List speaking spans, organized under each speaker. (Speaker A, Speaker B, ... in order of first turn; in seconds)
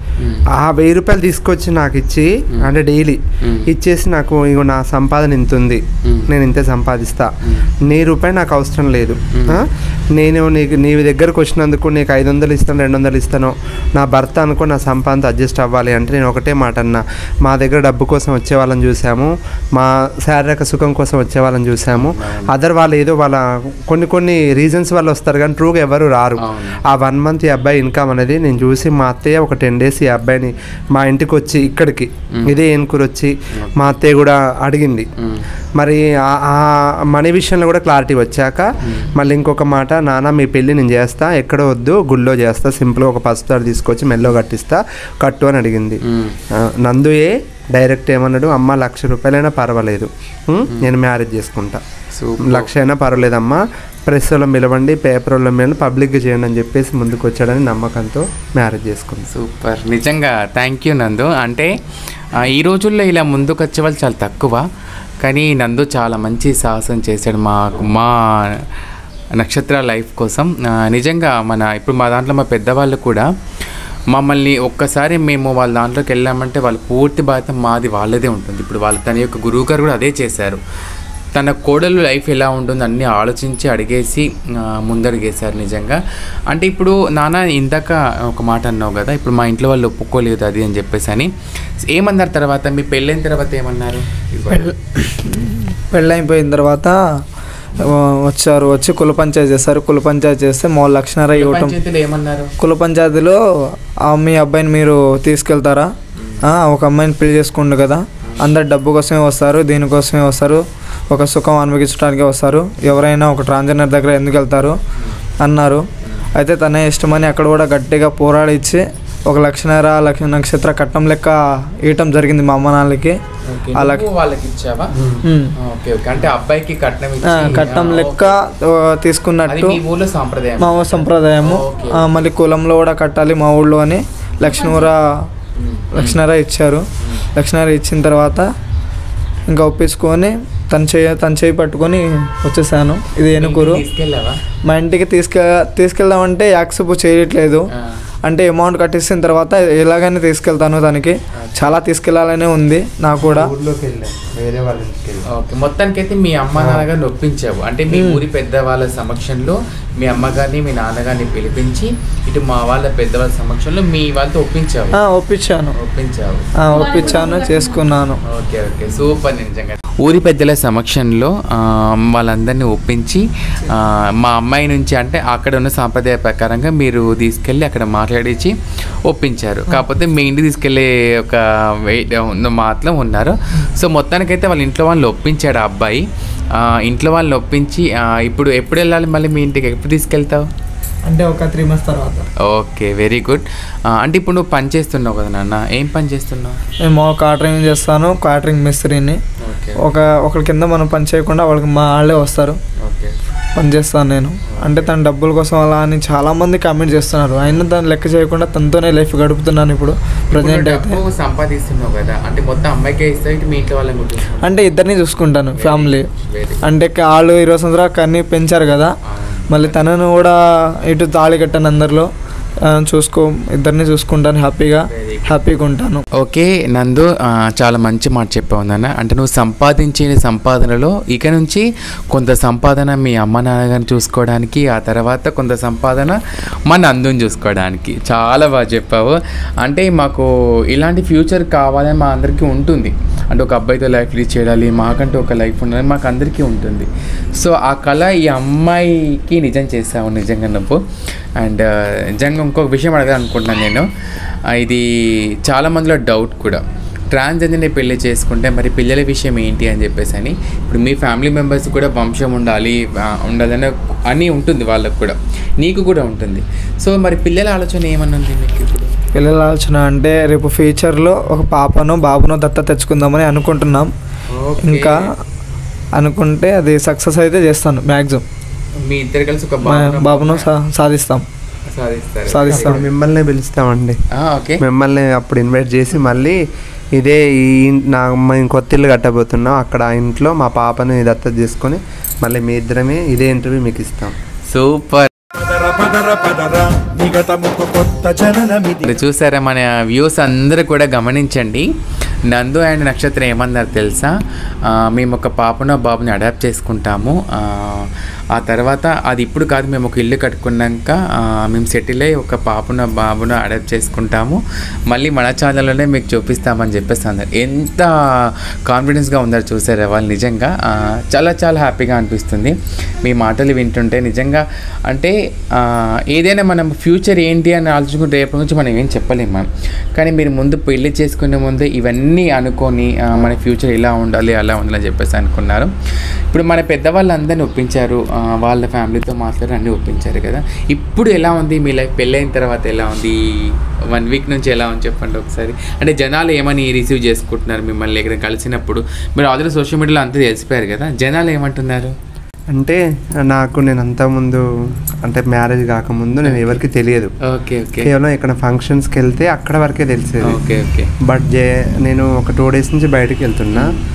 Speaker A: 0.2-0.5, 3.4-3.7, 7.4-7.7, 9.3-9.6, 21.9-22.5, 26.4-26.8, 33.5-34.0, 35.2-35.5, 38.8-39.1, 46.0-46.4, 52.1-52.7, 59.3-61.8, 62.3-64.7, 65.2-68.7, 69.3-73.3, 74.1-80.6, 81.3-91.3, 91.8-94.7, 101.3-102.5, 106.2-106.5, 123.5-125.0, 125.6-128.4, 129.5-132.1, 135.6-136.2, 137.0-137.3, 143.3-144.4, 147.7-148.0, 151.3-151.7, 155.3-165.0, 165.7-166.5, 168.2-190.5, 192.4-196.6, 199.4-199.8, 202.8-203.2, 204.5-204.9, 210.3-214.6, 215.6-216.6, 219.1-219.8, 224.9-225.3, 226.1-250.8, 251.4-253.9, 254.5-268.9, 274.3-275.1, 278.8-280.5, 281.7-282.8, 284.1-284.6, 294.5-295.1, 298.9-301.7, 302.3-335.7, 336.3-352.0, 356.2-356.5, 357.2-357.9, 360.2-360.9, 363.5-363.8
Speaker B: 0.5-7.3, 7.8-35.1, 35.8-51.8, 52.4-59.3, 125.0-125.2, 153.2-155.3, 156.6-156.8, 282.5-284.0, 284.6-286.4, 287.0-294.1, 352.5-354.5, 355.0-357.1, 357.8-360.4, 361.0-363.7
Speaker C: 94.5-97.2, 97.8-101.8, 102.6-114.8, 115.4-123.2, 123.8-124.0, 125.2-125.5, 127.2-129.8, 130.6-135.3, 135.9-138.5, 139.5-143.8, 144.7-147.7, 148.2-153.5, 157.9-158.2, 164.9-165.7, 166.6-168.2, 191.1-192.3, 196.8-199.2, 199.8-202.6, 203.6-211.0, 214.4-216.1, 216.6-219.0, 219.5-222.1, 222.6-226.1, 269.1-273.9, 274.6-275.1, 276.0-278.2, 279.6-281.3, 282.3-282.8
Speaker D: 295.4-299.0